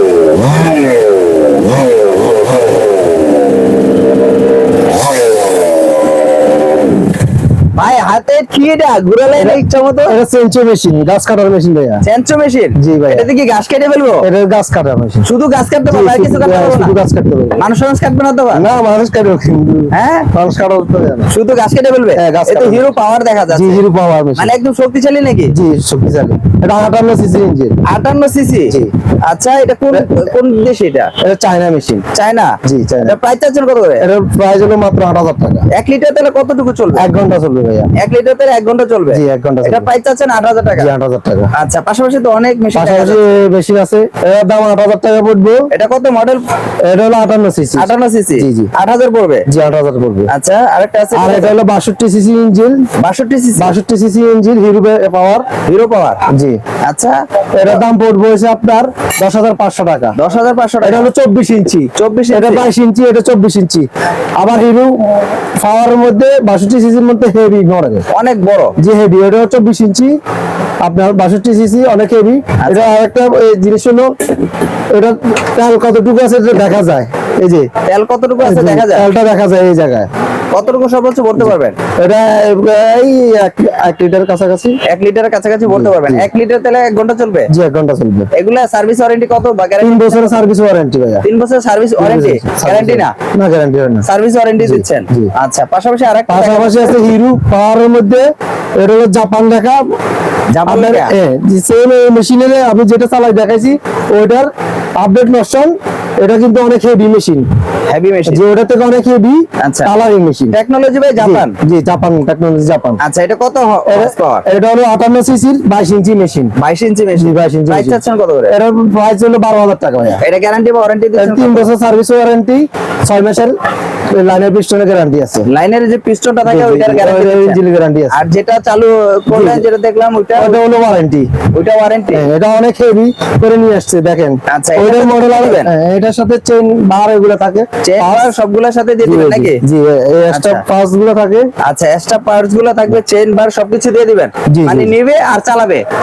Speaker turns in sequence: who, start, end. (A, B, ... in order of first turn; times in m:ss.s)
0:07.8-0:10.2 A
0:09.4-0:12.0 B
0:12.0-0:14.2 A
0:12.8-0:13.3 B
0:14.2-0:15.2 B
0:15.2-0:17.0 A
0:15.9-0:17.6 B
0:17.6-0:18.7 A
0:18.5-0:21.3 B
0:19.9-0:20.3 A
0:21.3-0:23.8 A
0:22.2-0:22.9 B
0:23.5-0:24.5 B
0:24.4-0:25.6 A
0:25.5-0:27.8 B
0:27.9-0:31.1 A
0:29.9-0:30.3 B
0:31.2-0:32.0 B
0:32.1-0:34.1 A
0:32.6-0:33.2 B
0:34.0-0:35.7 B
0:35.7-0:37.1 A
0:37.0-0:37.9 B
0:38.0-0:40.9 A
0:39.1-0:39.9 B
0:40.8-0:41.5 B
0:41.5-0:43.4 A
0:42.8-0:45.7 B
0:45.7-0:46.4 A
0:46.8-0:48.7 B
0:47.8-0:49.5 A
0:49.5-0:50.3 B
0:50.3-0:51.5 A
0:51.1-0:52.9 B
0:53.0-0:53.8 A
0:53.6-0:55.5 B
0:55.7-0:56.2 A
0:56.3-0:56.6 B
0:56.8-0:57.8 A
0:57.6-1:00.2 B
1:00.2-1:01.1 A
1:00.8-1:08.0 B
1:02.0-1:02.7 A
1:08.1-1:08.8 A
1:08.8-1:10.1 B
1:10.8-1:14.1 B
1:12.6-1:13.0 A
1:14.9-1:17.7 B
1:17.9-1:19.1 A
1:18.4-1:20.1 B
1:20.5-1:21.8 A
1:21.4-1:24.8 B
1:24.9-1:27.5 A
1:25.7-1:26.3 B
1:27.5-1:28.3 B
1:28.3-1:30.4 A
1:29.8-1:31.2 B
1:31.2-1:33.1 A
1:32.0-1:34.1 B
1:34.0-1:37.0 A
1:34.6-1:35.3 B
1:36.3-1:39.8 B
1:40.5-1:41.1 A
1:40.7-1:47.5 B
1:47.9-1:48.4 A
1:48.3-1:50.6 B
1:49.6-1:49.9 A
1:50.5-1:51.5 A
1:51.2-1:53.0 B
1:53.0-1:54.4 A
1:53.9-1:56.5 B
1:56.6-1:58.6 A
1:57.2-1:58.0 B
1:58.5-2:00.2 B
2:00.2-2:01.7 A
2:01.2-2:03.6 B
2:04.1-2:05.5 B
2:05.5-2:07.6 A
2:06.4-2:08.3 B
2:08.1-2:10.6 A
2:09.3-2:09.6 B
2:10.4-2:11.3 B
2:11.6-2:12.3 A
2:12.1-2:18.3 B
2:14.5-2:15.7 A
2:17.8-2:19.6 A
2:19.0-2:21.5 B
2:20.3-2:20.6 A
2:21.6-2:25.8 A
2:24.5-2:24.9 B